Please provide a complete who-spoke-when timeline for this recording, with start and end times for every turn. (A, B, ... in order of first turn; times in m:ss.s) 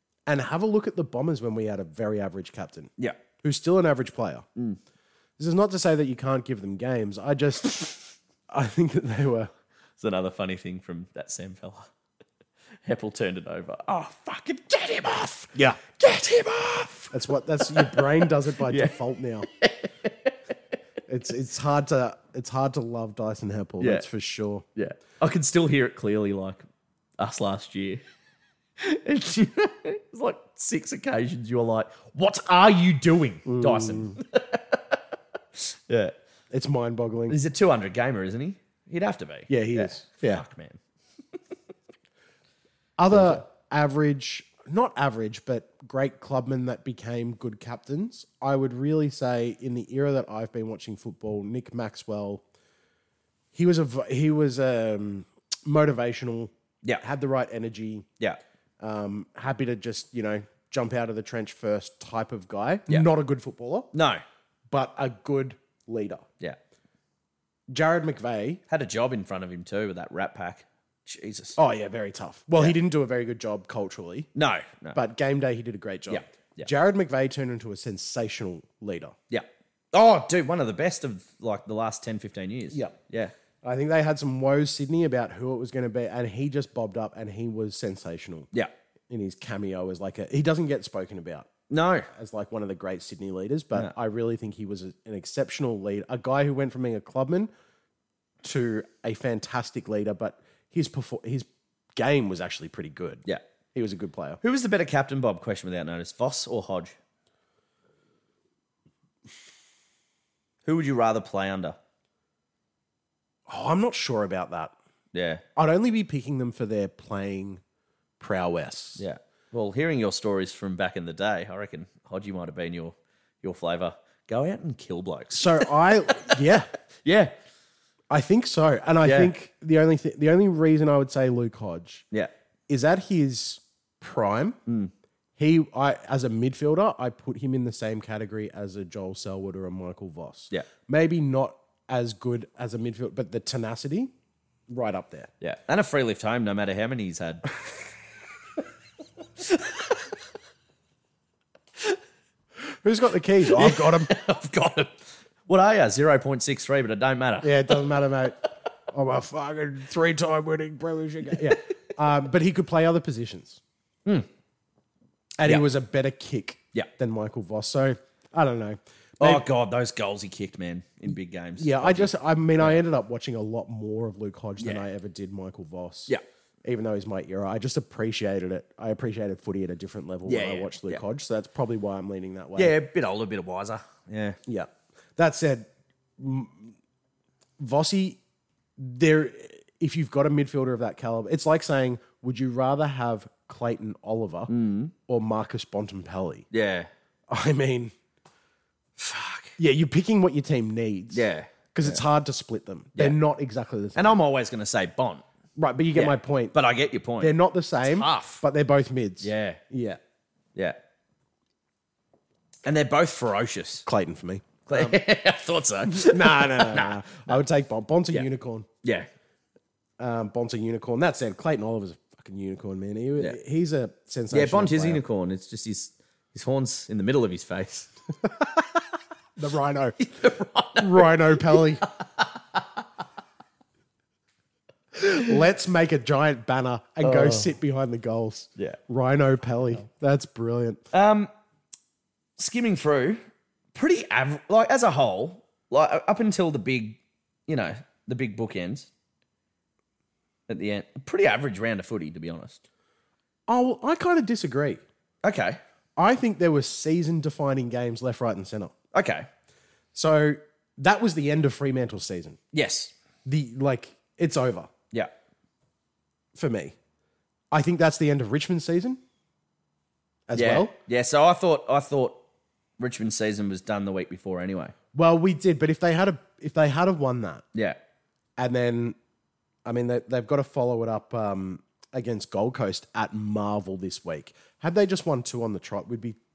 0:00.3-0:04.5 A
0:05.4-0:09.5 A
0:10.0-0:11.9 B
0:12.8-0:20.4 B
0:15.5-0:15.8 A
0:17.1-0:19.5 A
0:21.1-0:24.6 A
0:23.8-0:24.0 B
0:24.8-0:26.6 B
0:27.2-0:28.0 B
0:28.8-0:35.0 B
0:33.5-0:34.2 A
0:35.6-0:36.1 B
0:36.5-0:37.4 A
0:37.3-0:40.8 B
0:39.5-0:40.4 A
0:43.0-0:52.4 A
0:43.1-0:43.4 B
0:53.5-0:58.1 A
0:58.8-1:03.9 A
1:03.9-1:04.2 B
1:04.7-1:06.3 A
1:07.7-1:08.6 A
1:08.7-1:11.6 B
1:11.6-1:14.3 A
1:14.4-1:15.0 B
1:14.9-1:19.2 A
1:16.1-1:16.7 B
1:19.3-1:23.3 B
1:23.6-1:28.5 A
1:29.1-1:31.5 A
1:31.7-1:32.1 B
1:32.1-1:37.5 A
1:38.4-1:44.4 A
1:44.4-1:47.0 B
1:50.6-1:51.8 B
1:53.5-1:54.7 A
1:55.1-1:55.4 B
1:55.6-1:57.6 A
1:58.2-1:59.0 A
1:59.0-2:07.3 B
2:05.3-2:06.7 A
2:08.1-2:12.1 A
2:09.0-2:09.3 B
2:12.7-2:14.6 A
2:15.4-2:24.1 A
2:24.7-2:25.3 A
2:25.4-2:27.5 B
2:29.4-2:30.1 B
2:32.7-2:34.1 A
2:33.5-2:37.9 B
2:37.4-2:43.6 A
2:45.4-2:49.4 A
2:49.2-2:52.8 B
2:51.6-2:56.1 A
2:56.6-3:02.8 A
3:00.3-3:01.0 B
3:02.6-3:04.4 B
3:04.5-3:05.7 A
3:06.2-3:06.7 A
3:07.6-3:08.2 A
3:08.8-3:14.5 A
3:14.5-3:14.9 B
3:15.1-3:16.5 A
3:16.5-3:16.9 B
3:17.3-3:17.9 A
3:19.0-3:19.6 B
3:19.6-3:24.2 A
3:21.1-3:22.0 B
3:24.0-3:25.2 B
3:25.6-3:26.6 A
3:25.9-3:28.4 B
3:27.2-3:30.0 A
3:29.2-3:29.6 B
3:32.6-3:33.8 B
3:33.9-3:35.0 A
3:34.7-3:37.3 B
3:35.8-3:38.7 A
3:38.8-3:39.1 B
3:40.0-3:45.0 A
3:44.3-3:47.9 B
3:49.4-3:50.1 A
3:50.0-3:52.9 B
3:50.8-3:51.8 A
3:55.0-4:00.8 A
3:57.0-3:57.5 B
4:00.9-4:01.3 B
4:02.4-4:03.2 B
4:03.7-4:08.9 B
4:10.5-4:12.6 B
4:13.5-4:14.8 A
4:15.2-4:15.6 B
4:16.0-4:18.7 A
4:18.9-4:19.3 B
4:19.9-4:22.4 A
4:22.5-4:22.9 B
4:23.2-4:24.7 A
4:26.4-4:26.8 A
4:27.5-4:29.0 A
4:30.3-4:30.8 A
4:30.4-4:32.2 B
4:32.8-4:34.7 B
4:34.9-4:37.4 A
4:37.5-4:37.8 B
4:38.4-4:39.0 A
4:39.6-4:46.2 A